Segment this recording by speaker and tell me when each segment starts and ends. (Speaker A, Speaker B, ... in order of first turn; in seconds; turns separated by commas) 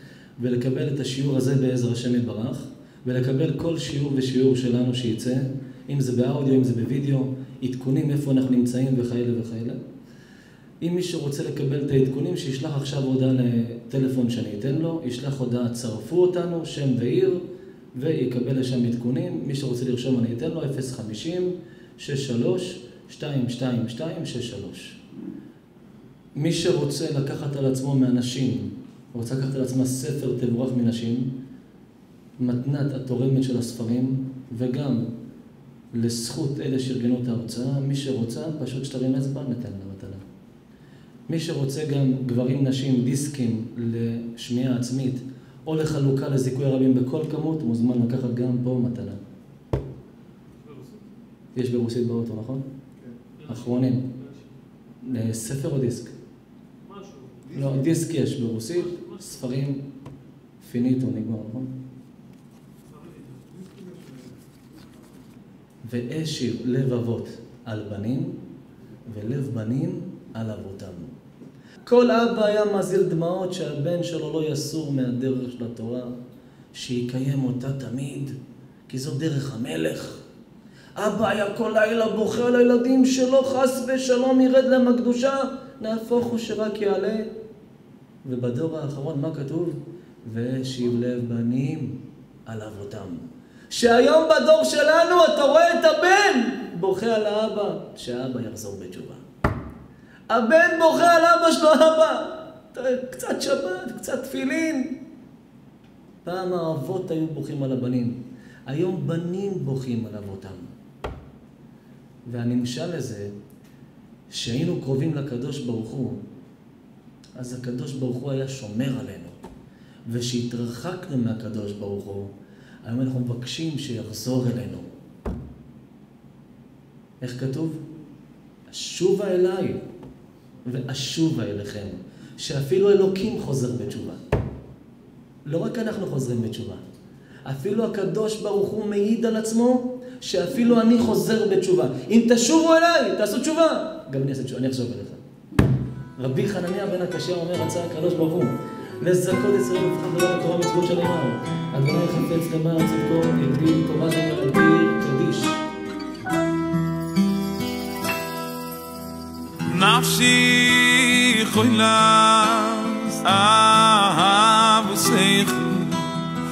Speaker A: 0.4-9.8, Speaker A: 10.8-17.4, Speaker A: 17.9-25.0, Speaker A: 26.4-31.3, Speaker A: 32.4-35.1, Speaker A: 35.9-40.2, Speaker A: 41.3-49.2, Speaker B: 50.6-51.0, Speaker A: 51.5-52.7, Speaker B: 53.4-54.5, Speaker A: 53.5-54.1, Speaker A: 55.0-56.1, Speaker B: 56.9-57.9, Speaker A: 57.5-59.8, Speaker B: 58.7-59.4, Speaker A: 60.6-61.7, Speaker B: 62.9-64.2, Speaker A: 65.8-68.4, Speaker A: 69.1-71.1, Speaker A: 71.9-76.1, Speaker A: 76.7-78.4, Speaker A: 78.9-80.2, Speaker A: 81.0-87.3, Speaker A: 88.2-99.2, Speaker A: 100.3-105.0, Speaker A: 106.2-110.7, Speaker A: 112.3-113.3, Speaker A: 114.3-116.2, Speaker A: 117.4-119.4, Speaker A: 120.1-122.3, Speaker A: 122.8-124.9, Speaker A: 127.2-127.8, Speaker A: 128.7-129.8, Speaker A: 130.7-134.2, Speaker A: 135.5-136.8, Speaker A: 137.5-145.2, Speaker A: 146.2-155.6, Speaker C: 159.7-166.3